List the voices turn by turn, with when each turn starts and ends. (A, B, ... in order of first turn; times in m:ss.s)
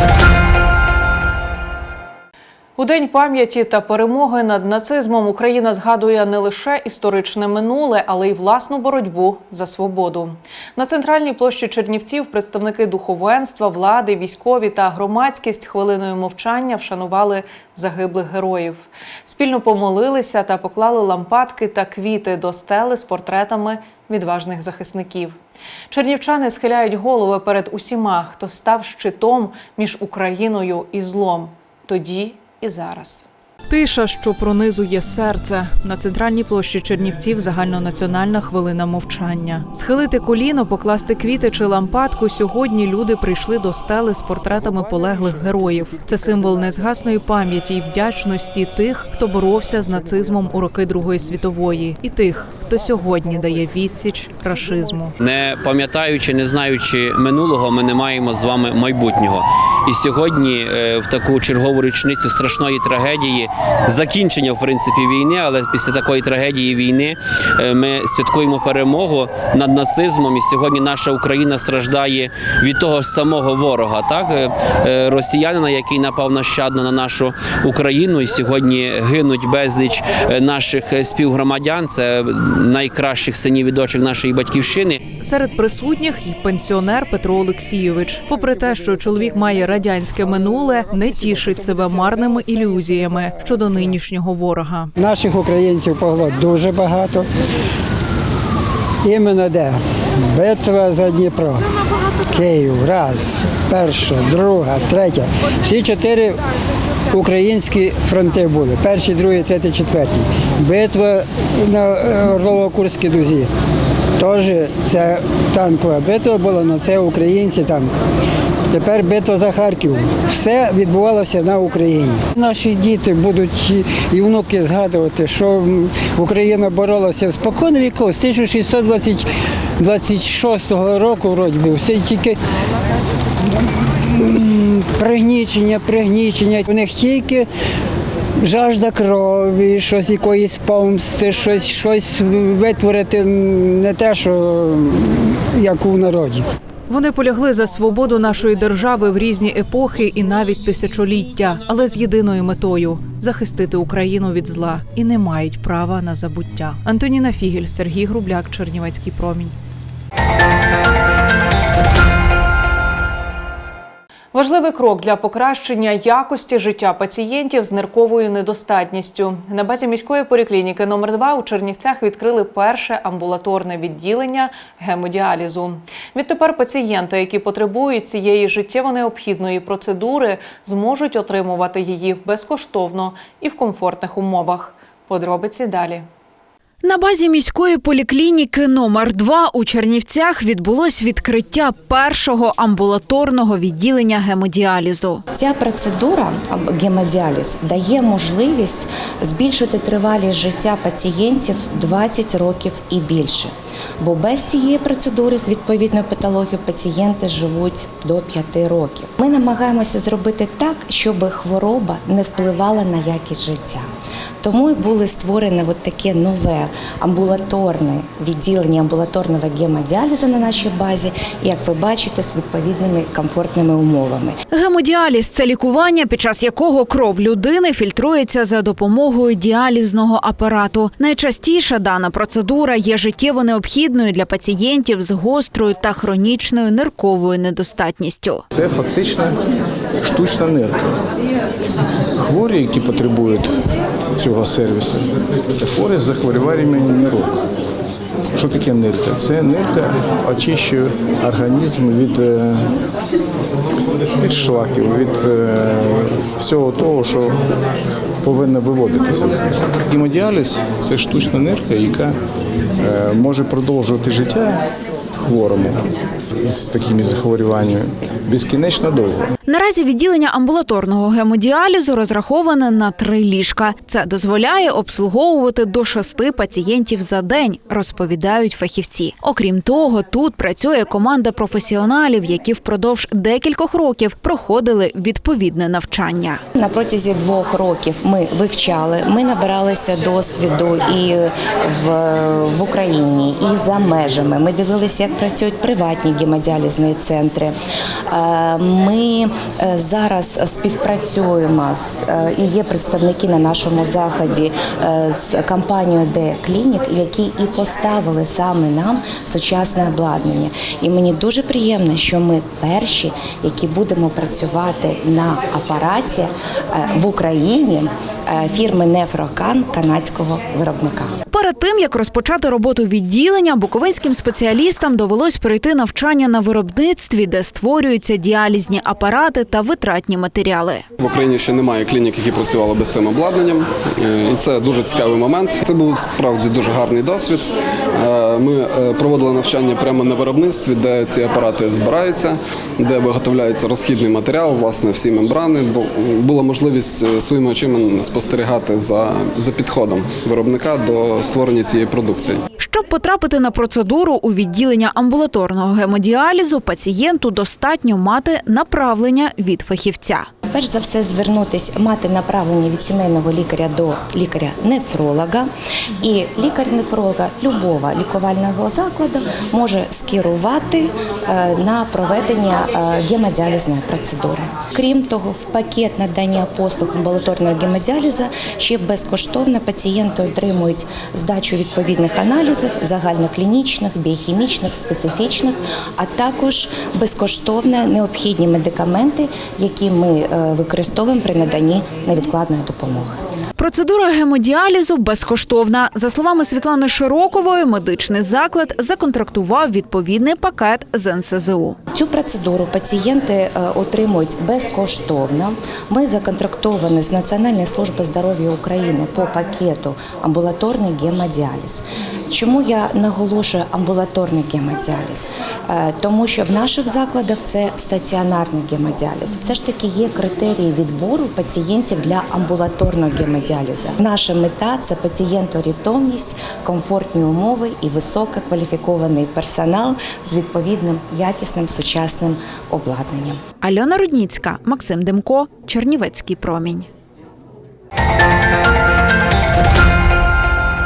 0:02.8-0:25.4 A
0:25.9-0:55.2 A
0:55.2-1:25.0 B
1:25.2-1:34.9 A
1:35.0-1:37.3 C
1:39.0-1:41.7 C
1:42.3-1:46.4 C
1:47.1-1:53.5 C
1:54.2-1:57.9 C
1:58.7-2:12.4 C
2:13.6-2:17.5 C
2:18.4-2:26.5 C
2:26.9-2:39.6 A
2:44.3-3:06.0 A
3:06.8-3:15.2 D
3:15.3-3:33.8 E
3:34.4-3:44.4 E
3:44.5-3:58.4 D
3:58.5-3:59.4 F
4:00.0-4:00.9 F
4:02.2-4:03.6 F
4:04.2-4:07.3 F
4:08.4-4:12.7 F
4:14.2-4:17.4 F
4:18.2-4:22.2 F
4:22.8-4:24.6 F
4:25.2-4:25.8 F
4:26.4-4:29.3 F
4:29.5-4:46.4 D
4:46.6-4:57.6 E
4:58.1-5:21.1 E
5:21.3-5:30.8 D
5:31.0-5:33.6 G
5:34.3-5:37.5 G
5:38.2-5:52.4 G
5:52.6-6:00.3 D
6:00.5-6:05.5 E
6:06.0-6:33.2 E
6:33.6-6:41.8 D
6:41.9-7:13.4 E
7:13.6-7:16.9 D